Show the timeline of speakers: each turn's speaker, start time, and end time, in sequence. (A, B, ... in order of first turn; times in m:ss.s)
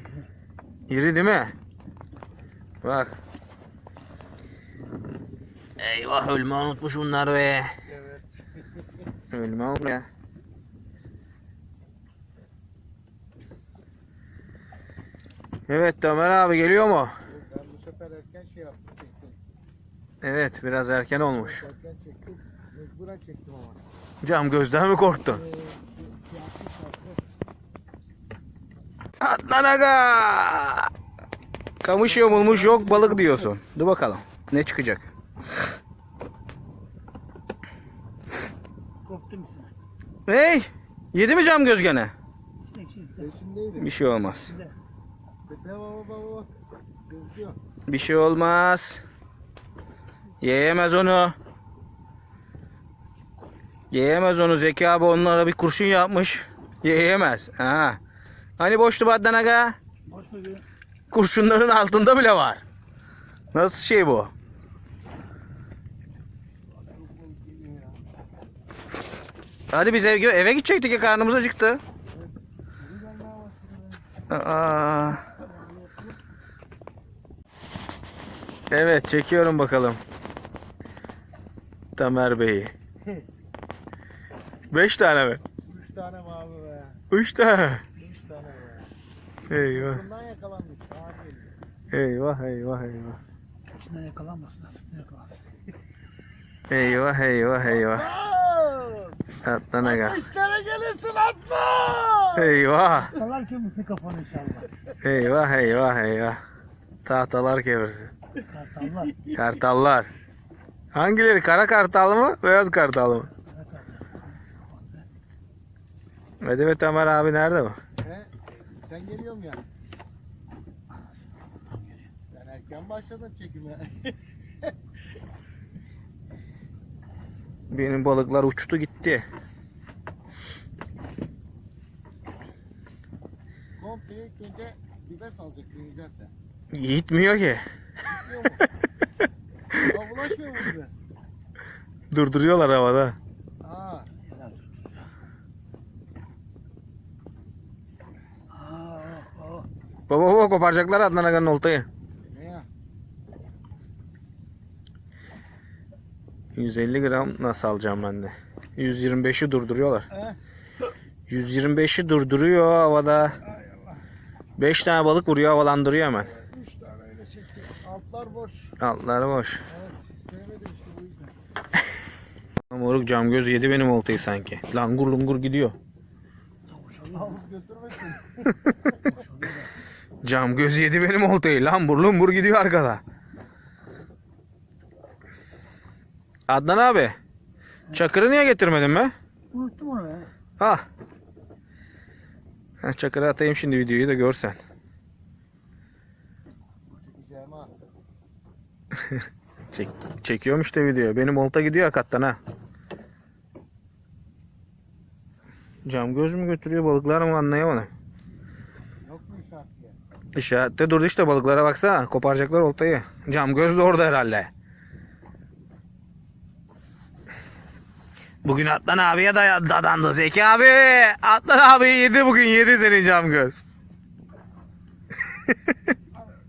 0:00.9-0:01.5 A
0:02.8-0:03.2 A
0:05.8-0:07.7 A
0:07.9-0:08.4 B
0:09.3-0:10.1 A
0:15.7-0:17.1 A
0:17.3-0:19.4 B
0:20.2-0:21.6 A
0:21.3-0:23.8 B
0:24.2-0:25.4 A
0:25.3-0:27.2 B
0:29.2-0:30.9 A
0:31.8-0:35.1 A
0:32.7-0:33.1 B
0:39.0-0:39.7 C
0:40.3-0:42.1 A
0:42.7-0:43.3 C
0:43.2-0:43.9 B
0:43.8-0:44.5 A
0:44.5-0:44.7 C
0:45.5-0:46.5 B
0:47.1-0:47.6 B
0:47.9-0:49.0 A
0:50.4-0:51.4 A
0:53.9-0:58.0 A
0:58.6-0:59.8 A
1:00.1-1:00.6 C
1:01.1-1:02.6 A
1:03.5-1:04.3 A
1:06.8-1:08.0 B
1:09.7-1:11.8 A
1:12.1-1:14.0 B
1:14.3-1:15.2 A
1:15.4-1:16.1 B
1:18.7-1:20.0 A
1:22.0-1:22.7 A
1:24.7-1:25.4 A
1:25.6-1:27.0 B
1:27.1-1:27.8 A
1:28.0-1:28.9 B
1:29.5-1:30.0 A
1:29.5-1:31.5 B
1:31.9-1:33.2 A
1:33.8-1:35.4 C
1:36.7-1:38.1 A
1:37.6-1:39.2 B
1:39.4-1:40.2 A
1:39.8-1:42.7 B
1:42.4-1:43.2 A
1:43.1-1:44.7 C
1:45.0-1:46.4 A
1:47.0-1:48.1 A
1:48.5-1:49.2 C
1:49.3-1:50.1 A
1:50.9-1:53.3 A
1:53.4-1:55.0 C
1:56.4-1:57.8 A
1:58.0-1:59.6 B
2:02.3-2:04.7 B
2:07.7-2:09.2 A
2:13.8-2:16.3 B
2:16.7-2:17.6 A
2:18.1-2:18.6 B
2:19.7-2:20.9 B
2:22.1-2:23.2 A
2:23.6-2:24.1 B
2:24.3-2:24.6 C
2:28.5-2:29.7 C
2:30.1-2:31.9 A
2:32.2-2:32.7 B
2:36.6-2:40.1 A
2:40.1-2:40.4 B
2:41.3-2:43.4 A
2:44.6-2:46.3 A
2:46.3-2:48.8 B
2:48.8-2:49.6 A
2:49.7-2:51.3 B
2:52.7-2:55.8 A
2:56.7-2:57.3 C
2:57.1-2:58.6 B
2:59.1-2:59.7 C
3:00.2-3:03.0 A
3:06.5-3:07.2 A
3:07.9-3:09.1 A
3:09.5-3:10.3 C
3:10.6-3:10.8 A
3:12.8-3:14.6 A
3:16.9-3:17.7 B
3:19.1-3:22.4 A
3:25.8-3:27.9 A
3:29.0-3:30.0 B
3:30.4-3:34.5 A
3:38.4-3:43.6 A
3:45.3-3:45.9 A